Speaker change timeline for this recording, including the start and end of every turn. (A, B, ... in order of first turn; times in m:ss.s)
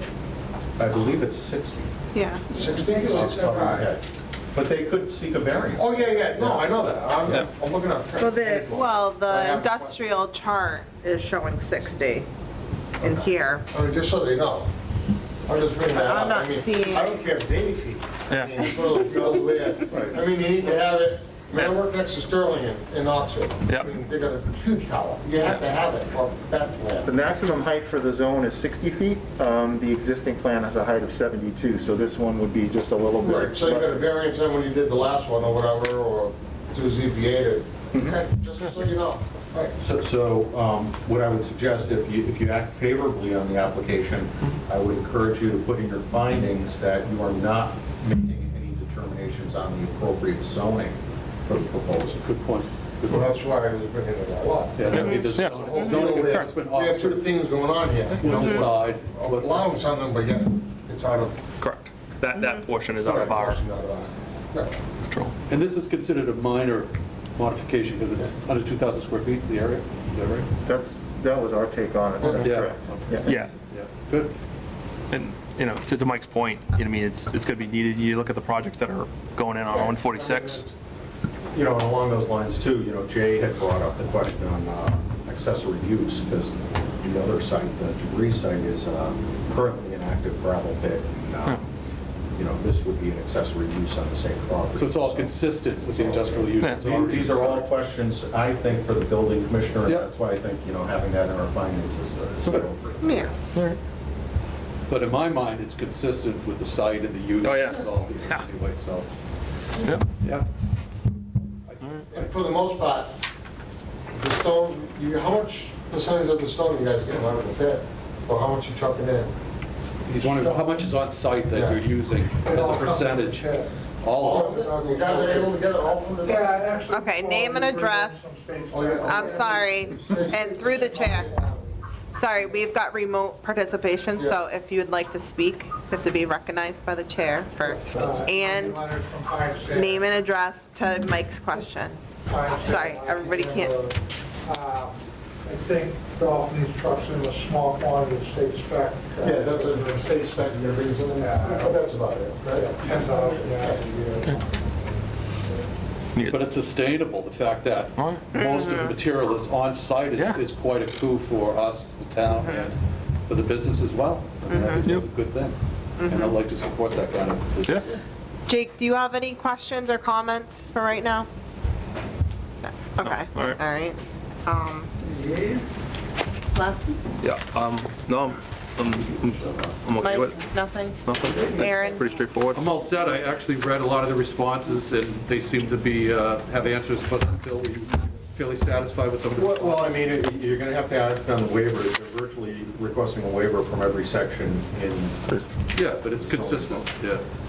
0:00.8-0:01.9 A
0:02.1-0:02.5 B
0:02.5-0:03.9 C
0:03.0-0:06.7 A
0:05.8-0:10.0 C
0:08.2-0:12.3 B
0:13.0-0:13.7 B
0:13.0-0:14.7 C
0:15.5-0:27.1 C
0:15.9-0:17.2 B
0:18.3-0:18.6 D
0:19.9-0:20.2 E
0:27.0-0:34.1 F
0:33.2-0:39.8 C
0:39.8-0:52.2 A
0:52.1-0:53.3 E
0:53.1-1:01.4 C
0:54.8-0:57.4 E
0:54.9-0:56.5 D
0:55.0-0:56.0 B
0:58.2-0:59.7 E
1:01.6-1:03.6 D
1:02.3-1:02.7 B
1:03.0-1:04.7 C
1:05.5-1:10.5 E
1:10.6-1:13.4 F
1:12.2-1:12.5 C
1:12.3-1:14.3 E
1:13.2-1:13.5 D
1:15.1-1:20.6 D
1:19.7-1:20.7 C
1:21.5-1:31.7 A
1:32.4-1:43.3 A
1:34.8-1:37.6 E
1:36.6-1:36.9 D
1:43.0-1:43.4 B
1:43.4-1:43.8 D
1:44.9-1:49.1 E
1:47.4-1:48.4 D
1:49.8-1:50.1 D
1:50.2-1:50.5 E
1:51.7-1:52.6 E
1:52.1-1:53.2 C
1:54.1-1:59.3 C
2:00.1-2:04.6 E
2:00.2-2:00.9 G
2:01.5-2:01.8 C
2:02.4-2:05.5 G
2:04.2-2:06.6 C
2:06.2-2:11.8 G
2:06.9-2:08.4 B
2:08.7-2:09.4 C
2:09.0-2:11.4 B
2:09.9-2:11.6 C
2:12.1-2:18.9 B
2:17.7-2:20.2 G
2:19.7-2:22.0 B
2:22.3-2:30.2 G
2:22.5-2:23.8 B
2:29.2-2:32.9 C
2:31.2-2:31.8 G
2:32.5-2:34.5 G
2:36.2-2:36.4 D
2:36.3-2:48.0 E
2:38.0-2:38.3 D
2:38.3-2:39.0 B
2:42.3-2:42.7 B
2:44.5-2:44.9 B
2:46.0-2:46.4 B
2:48.5-2:51.3 B
2:52.6-2:54.9 B
2:53.0-2:53.6 D
2:56.5-2:57.0 B
2:57.2-3:00.4 D
3:00.0-3:01.0 B
3:01.0-3:02.7 D
3:01.5-3:02.1 B
3:02.5-3:10.0 E
3:09.4-3:15.4 A
3:15.7-3:17.2 E
3:16.1-3:16.9 A